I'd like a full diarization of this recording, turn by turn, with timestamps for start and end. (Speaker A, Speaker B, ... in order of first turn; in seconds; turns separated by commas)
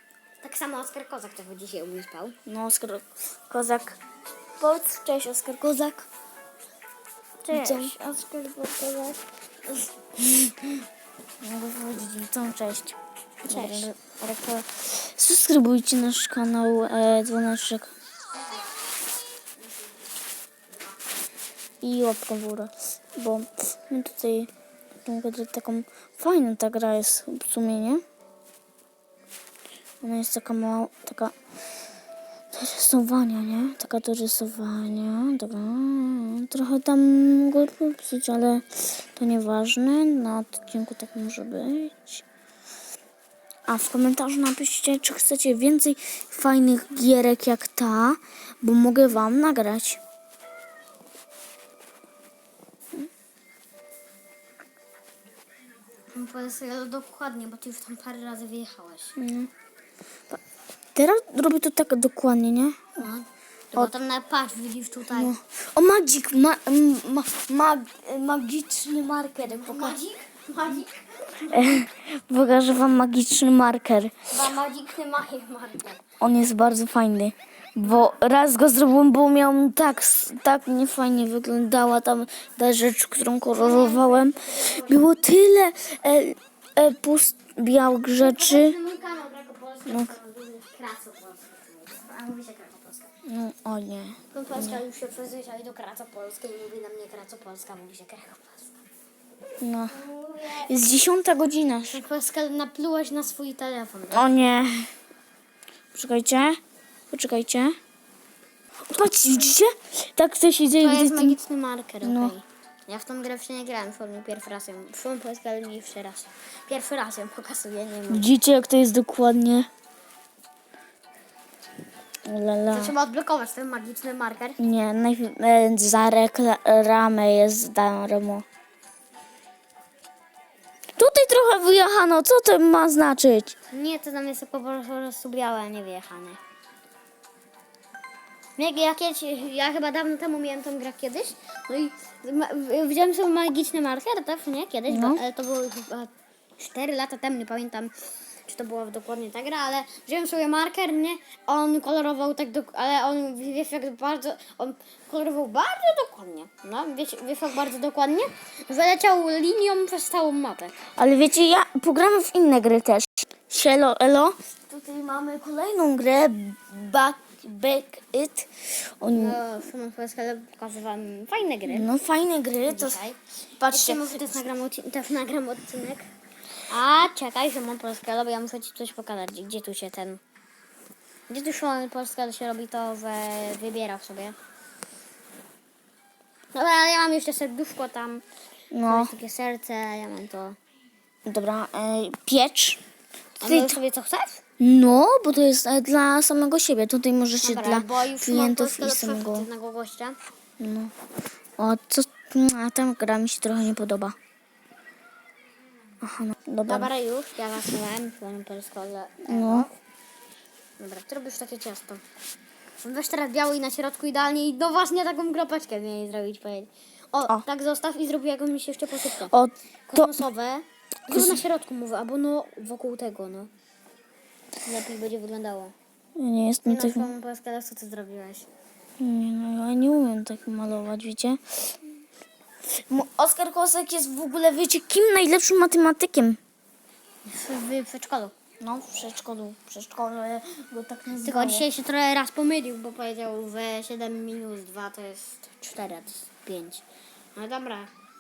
Speaker A: 0.4-2.4, Speaker B: 2.5-4.0, Speaker B: 4.6-6.1, Speaker A: 7.5-8.1, Speaker B: 7.5-9.2, Speaker B: 11.4-17.9, Speaker A: 13.5-13.9, Speaker B: 21.8-24.5, Speaker B: 25.1-28.0, Speaker B: 30.0-31.3, Speaker B: 32.5-42.2, Speaker B: 43.7-50.0, Speaker A: 56.1-59.2, Speaker B: 59.2-59.5, Speaker B: 61.0-63.1, Speaker A: 63.0-65.3, Speaker B: 65.1-70.0, Speaker A: 69.5-71.8, Speaker B: 71.5-74.1, Speaker A: 74.3-76.0, Speaker B: 76.2-88.8, Speaker A: 83.5-85.1, Speaker A: 88.2-93.1, Speaker B: 89.9-90.2, Speaker B: 93.2-94.8, Speaker A: 94.3-98.8, Speaker B: 99.6-99.9, Speaker A: 99.9-100.7, Speaker B: 100.7-102.0, Speaker A: 101.8-104.3, Speaker B: 104.1-104.9, Speaker B: 105.9-106.6, Speaker B: 107.1-107.8, Speaker B: 108.9-111.4, Speaker A: 110.8-118.3, Speaker B: 112.0-112.3, Speaker B: 118.1-119.7, Speaker B: 122.3-122.9, Speaker A: 122.7-124.6, Speaker B: 124.6-128.4, Speaker B: 131.0-133.6, Speaker A: 133.7-136.4, Speaker A: 138.6-147.9, Speaker B: 144.9-145.2, Speaker A: 148.5-160.7, Speaker B: 161.0-169.4, Speaker A: 169.1-171.9, Speaker B: 171.7-173.0, Speaker A: 172.7-176.1, Speaker B: 173.6-174.2, Speaker A: 176.7-180.2, Speaker A: 181.3-184.4, Speaker A: 186.5-188.2, Speaker B: 188.7-189.1, Speaker A: 188.9-190.6, Speaker B: 191.3-192.8, Speaker A: 193.4-194.4, Speaker B: 193.4-193.8, Speaker B: 194.6-199.5, Speaker A: 197.4-200.2, Speaker B: 200.6-200.9, Speaker B: 201.6-204.2, Speaker B: 206.0-206.9, Speaker A: 206.7-209.7, Speaker B: 209.3-209.7, Speaker A: 210.8-212.0, Speaker A: 212.8-219.3, Speaker B: 219.3-220.2, Speaker A: 219.9-223.5, Speaker B: 221.1-221.4, Speaker A: 224.7-225.8, Speaker B: 226.2-227.1, Speaker A: 226.7-228.5, Speaker B: 229.0-231.6, Speaker B: 232.9-236.4, Speaker A: 237.3-238.3, Speaker B: 238.6-241.7, Speaker A: 241.2-246.8, Speaker A: 247.3-247.9